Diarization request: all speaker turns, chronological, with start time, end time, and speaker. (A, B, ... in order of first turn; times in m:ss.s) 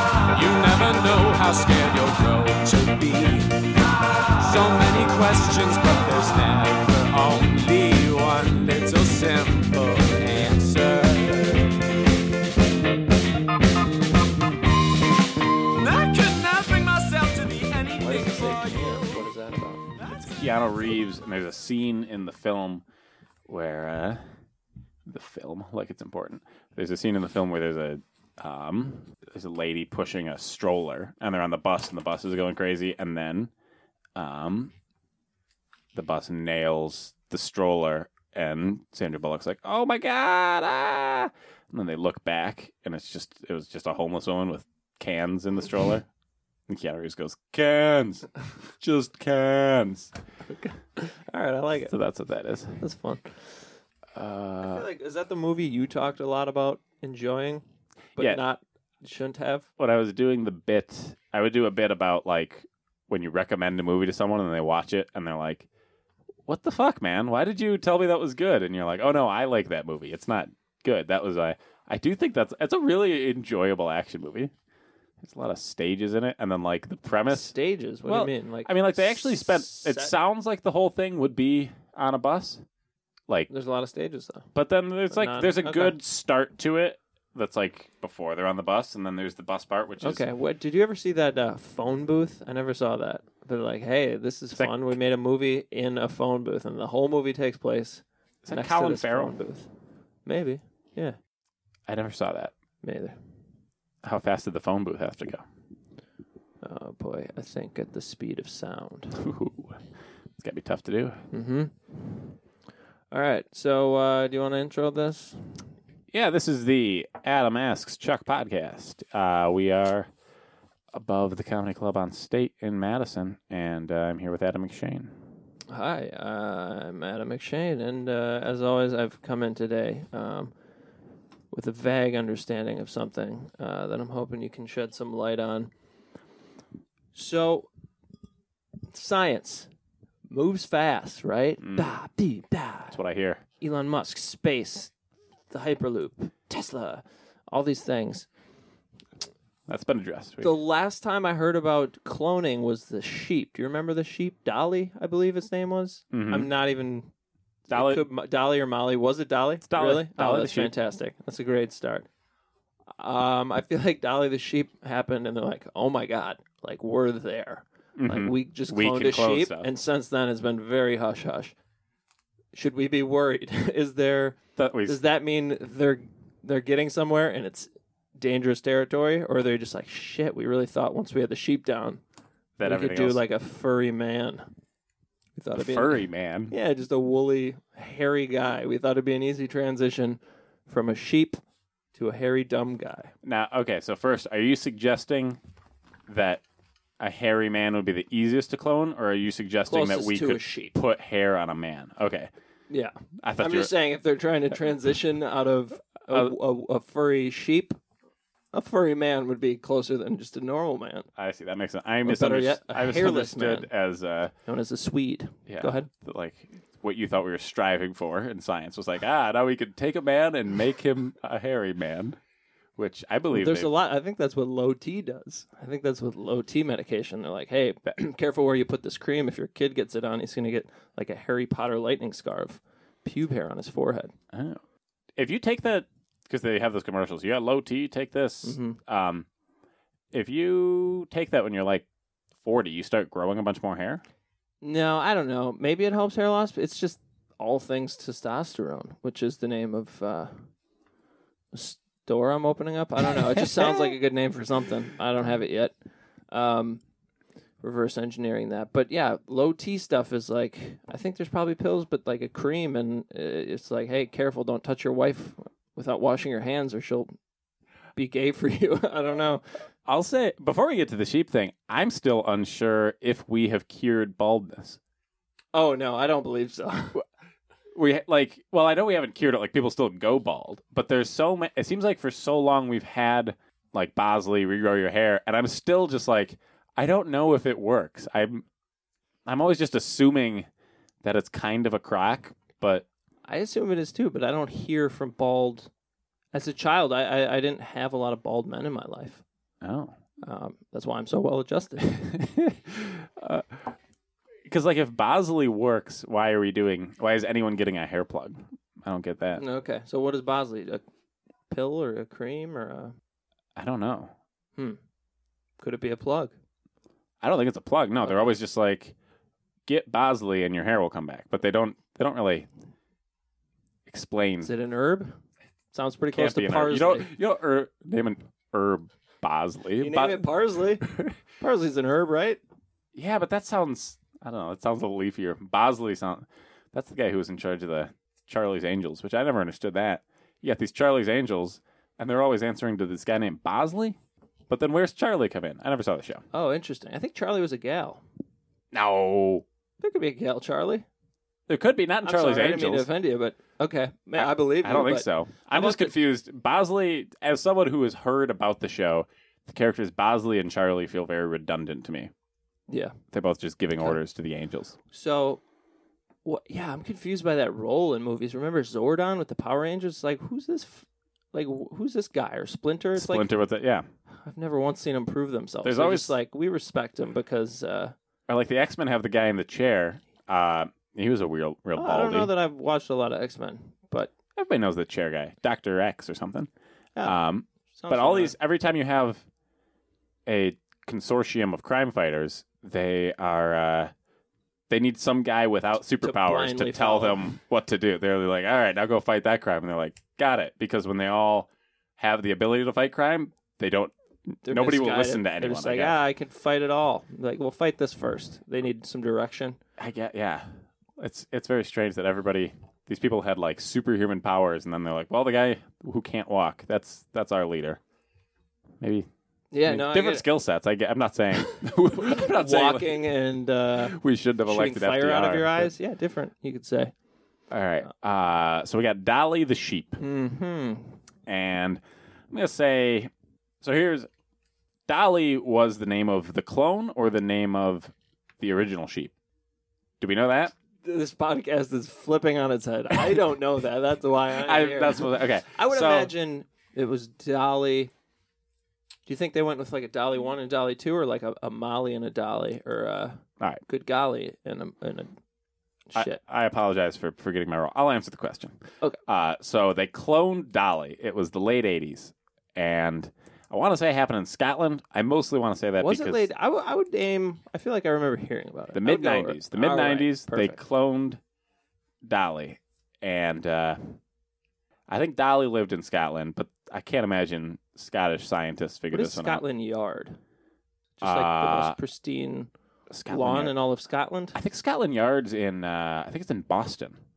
0:00.3-0:03.8 A
0:04.4-0:11.7 A
0:15.7-0:19.3 A
0:18.0-0:20.0 B
0:20.0-0:20.4 A
0:20.3-0:22.8 C
0:23.5-0:24.2 C
0:25.0-0:33.5 C
0:34.2-0:34.7 C
0:35.9-0:46.0 C
0:46.7-0:50.1 C
0:50.5-0:51.9 B
0:51.9-0:52.8 C
0:52.8-0:53.5 B
0:54.1-0:54.8 C
0:54.6-0:57.6 B
0:58.2-0:59.7 B
0:59.8-1:05.7 C
1:06.5-1:14.5 C
1:15.2-1:17.5 C
1:17.3-1:20.1 B
1:18.0-1:22.6 C
1:23.5-1:24.5 B
1:24.5-1:30.2 C
1:25.1-1:26.0 B
1:30.0-1:39.7 B
1:38.4-1:39.3 C
1:40.2-1:41.2 B
1:41.9-1:42.5 C
1:42.8-1:43.2 B
1:44.0-1:45.4 C
1:46.6-1:49.2 B
1:49.1-1:49.8 C
1:50.4-1:51.2 C
1:51.3-1:51.7 B
1:53.1-1:55.5 B
1:56.1-2:00.1 C
2:00.9-2:05.1 C
2:05.7-2:10.5 B
2:11.5-2:15.7 B
2:17.1-2:17.7 B
2:18.9-2:19.7 B
2:20.3-2:23.0 B
2:21.6-2:22.0 C
2:22.9-2:23.4 C
2:23.6-2:24.9 B
2:25.5-2:28.3 B
2:29.7-2:30.5 C
2:30.4-2:37.1 B
2:36.1-2:36.5 C
2:37.7-2:38.0 C
2:37.7-2:42.1 B
2:39.6-2:40.7 C
2:43.0-2:51.5 B
2:48.0-2:49.7 C
2:52.5-3:02.0 B
2:54.6-2:55.0 C
3:02.6-3:03.2 C
3:02.6-3:04.5 B
3:05.4-3:11.4 B
3:05.6-3:06.5 C
3:11.9-3:13.1 B
3:13.2-3:15.4 C
3:16.1-3:16.4 C
3:17.0-3:22.3 C
3:19.7-3:20.8 B
3:22.7-3:27.8 B
3:23.2-3:23.7 C
3:28.5-3:31.1 B
3:31.2-3:34.3 C
3:32.0-3:33.7 B
3:34.4-3:35.9 B
3:35.5-3:42.2 C
3:42.8-3:43.7 C
3:43.3-3:54.1 B
3:54.3-3:54.6 C
3:55.2-3:59.3 C
3:58.4-3:58.8 B
4:00.1-4:01.8 C
4:02.4-4:04.0 C
4:04.6-4:10.4 B
4:11.5-4:15.7 B
4:13.2-4:13.9 C
4:16.3-4:16.8 B
4:17.6-4:27.1 B
4:28.0-4:29.4 B
4:29.8-4:34.8 C
4:35.5-4:37.0 B
4:37.7-4:48.4 C
4:49.2-4:50.4 C
4:51.0-4:52.8 C
4:53.3-4:55.7 B
4:56.3-4:59.2 B
4:59.6-4:59.9 C
5:00.2-5:02.0 B
5:01.9-5:03.7 C
5:04.4-5:09.4 C
5:09.4-5:10.8 B
5:11.5-5:12.9 B
5:13.6-5:14.1 C
5:15.6-5:16.3 B
5:17.2-5:18.9 C
5:19.7-5:22.5 C
5:23.9-5:24.5 C
5:24.4-5:25.1 B
5:25.7-5:27.1 B
5:26.1-5:30.3 C
5:29.8-5:30.8 B
5:30.8-5:31.1 C
5:31.4-5:32.4 B
5:32.9-5:44.0 C
5:44.5-5:46.2 C
5:46.3-5:48.0 B
5:48.7-5:49.4 C
5:49.8-5:50.8 B
5:51.5-5:52.9 C
5:52.0-5:56.0 B
5:54.1-6:02.1 C
6:02.7-6:03.0 B
6:03.1-6:04.7 C
6:04.9-6:05.4 B
6:06.2-6:13.3 B
6:13.0-6:13.8 C
6:14.2-6:17.9 B
6:15.6-6:16.1 C
6:18.3-6:22.3 C
6:21.8-6:24.1 B
6:24.4-6:26.5 C
6:27.0-6:29.2 C
6:27.8-6:28.3 B
6:30.2-6:33.9 C
6:34.7-6:46.0 C
6:36.0-6:37.3 B
6:44.4-6:49.6 B
6:49.8-6:57.8 C
6:58.8-6:59.1 C
6:59.5-7:00.3 B
6:59.6-7:03.1 C
7:01.9-7:06.9 B
7:03.8-7:05.7 C
7:07.5-7:10.0 C
7:10.0-7:11.0 B
7:11.2-7:13.1 C
7:13.6-7:14.1 C
7:14.9-7:19.1 C
7:20.0-7:20.5 C
7:20.8-7:27.9 B
7:24.4-7:26.1 C
7:29.0-7:35.1 B
7:35.9-7:36.2 B
7:35.9-7:46.2 C
7:45.8-7:50.6 B
7:48.7-7:51.2 C
7:52.0-7:53.9 C
7:54.9-7:59.4 C
7:58.9-8:00.2 B
8:01.0-8:02.5 B
8:01.0-8:01.8 C
8:02.9-8:03.5 C
8:03.1-8:04.4 B
8:04.3-8:07.0 C